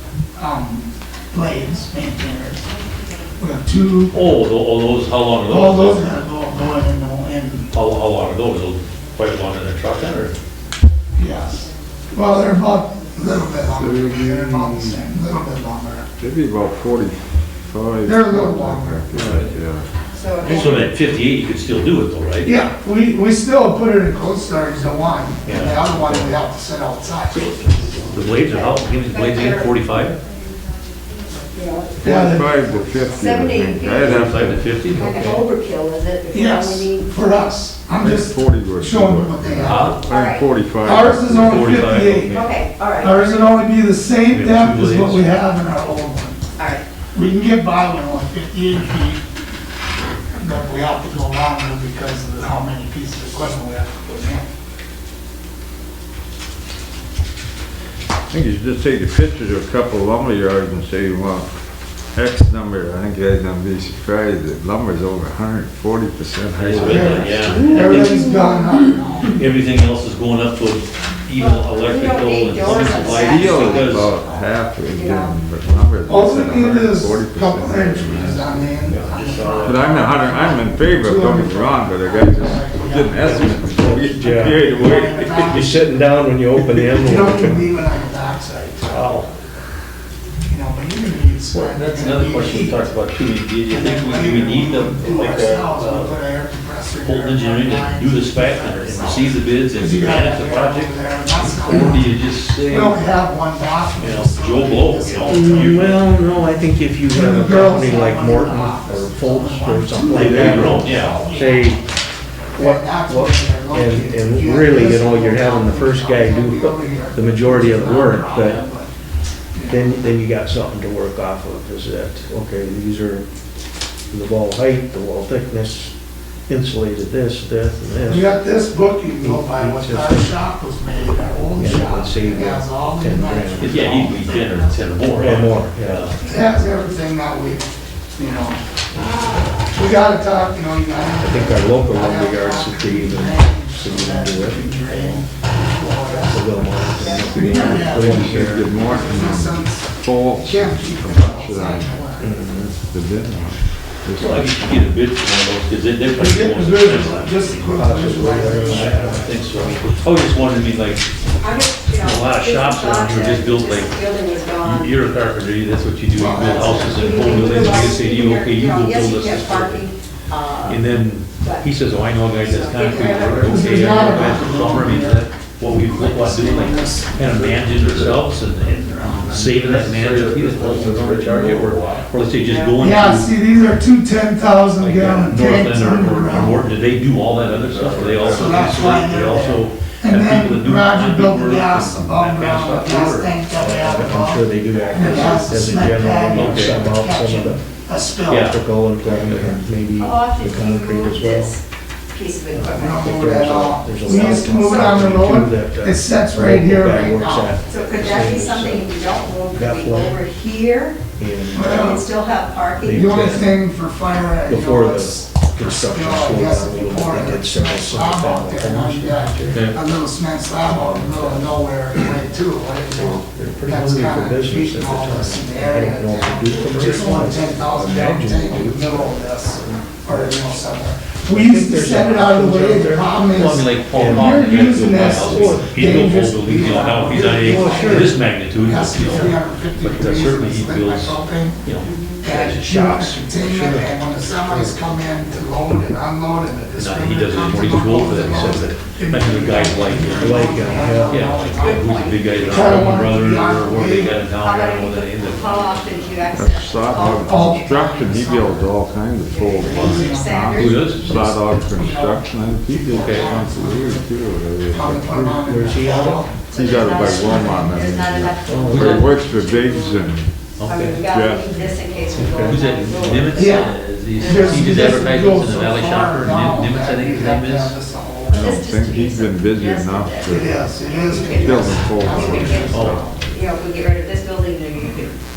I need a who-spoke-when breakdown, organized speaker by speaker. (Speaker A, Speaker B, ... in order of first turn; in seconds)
Speaker A: 0.4-2.7, 3.4-4.2, 5.4-7.7, 11.2-16.1, 18.0-19.4, 22.4-28.0, 32.0-32.9, 36.3-40.0, 40.8-42.5, 43.0-46.4, 47.1-49.2, 50.3-54.5, 66.7-69.4, 76.1-85.8, 86.8-89.3, 90.5-92.9, 93.7-106.1, 107.1-111.8, 112.5-118.9, 119.5-119.9, 128.1-134.9, 136.2-138.6, 139.6-152.3, 156.1-159.8, 166.1-167.8, 173.0-177.6, 178.6-179.4, 182.8-186.7, 188.2-199.5, 202.7-207.6, 211.5-212.0, 212.9-241.6, 242.2-254.2, 256.9-258.7, 259.6-264.1, 264.7-266.4, 273.3-278.5, 280.3-283.2
Speaker B: 4.1-6.1, 7.7-10.4, 19.1-19.5, 20.4-22.6, 25.5-25.8, 28.1-30.2, 34.0-35.3, 39.6-40.0, 41.3-42.5, 44.3-45.3, 66.5-68.3, 69.3-74.2, 78.9-79.8, 91.5-96.2, 97.0-103.1, 104.0-106.0, 110.0-111.2, 133.6-136.2, 154.2-161.1, 161.9-164.0, 164.6-169.8, 170.6-183.3, 184.8-193.4, 196.3-196.8, 198.3-198.6, 233.3-242.9, 246.8-256.1, 259.7-261.3, 262.9-263.4, 268.7-269.1, 270.6-271.0, 272.4-277.8, 282.7-283.1
Speaker C: 13.7-15.1, 16.2-19.9, 32.0-34.7, 38.0-41.8, 58.3-61.5, 62.1-68.0, 72.9-78.6, 79.6-85.7, 147.1-152.0, 152.9-154.7, 177.2-178.2, 179.0-182.1, 187.1-188.9, 256.3-265.1, 266.5-270.3, 271.0-271.6, 278.3-280.6, 281.2-282.9
Speaker D: 20.1-20.8, 28.4-29.8, 31.5-32.0, 33.1-34.3, 34.9-37.1, 40.1-40.5, 42.3-43.5, 46.6-46.8, 68.0-68.5, 71.4-75.3, 147.0-147.4, 161.4-165.0, 166.4-170.8, 171.4-171.7, 172.4-173.7, 182.4-182.8, 195.0-195.5, 200.0-205.0, 207.7-213.2, 241.8-242.2, 251.5-252.9, 254.4-257.6, 259.3-260.8, 266.5-270.1, 270.7-274.9, 278.3-285.2
Speaker E: 34.9-35.4, 67.8-68.7, 83.2-84.7, 85.5-87.7, 88.9-89.2, 105.3-111.8, 112.5-118.6, 119.7-123.2, 124.1-125.9, 126.5-128.3, 129.2-130.4, 131.6-134.0, 135.1-136.2, 141.2-145.2, 146.2-148.8, 152.2-152.8, 157.7-159.3, 193.5-197.8, 198.3-201.6, 202.5-210.3, 211.1-212.1, 212.7-213.6, 214.4-219.7, 220.7-221.6, 222.9-230.5, 231.2-238.2, 242.7-244.8, 250.0-251.4, 265.1-266.4, 268.4-269.0, 272.1-272.6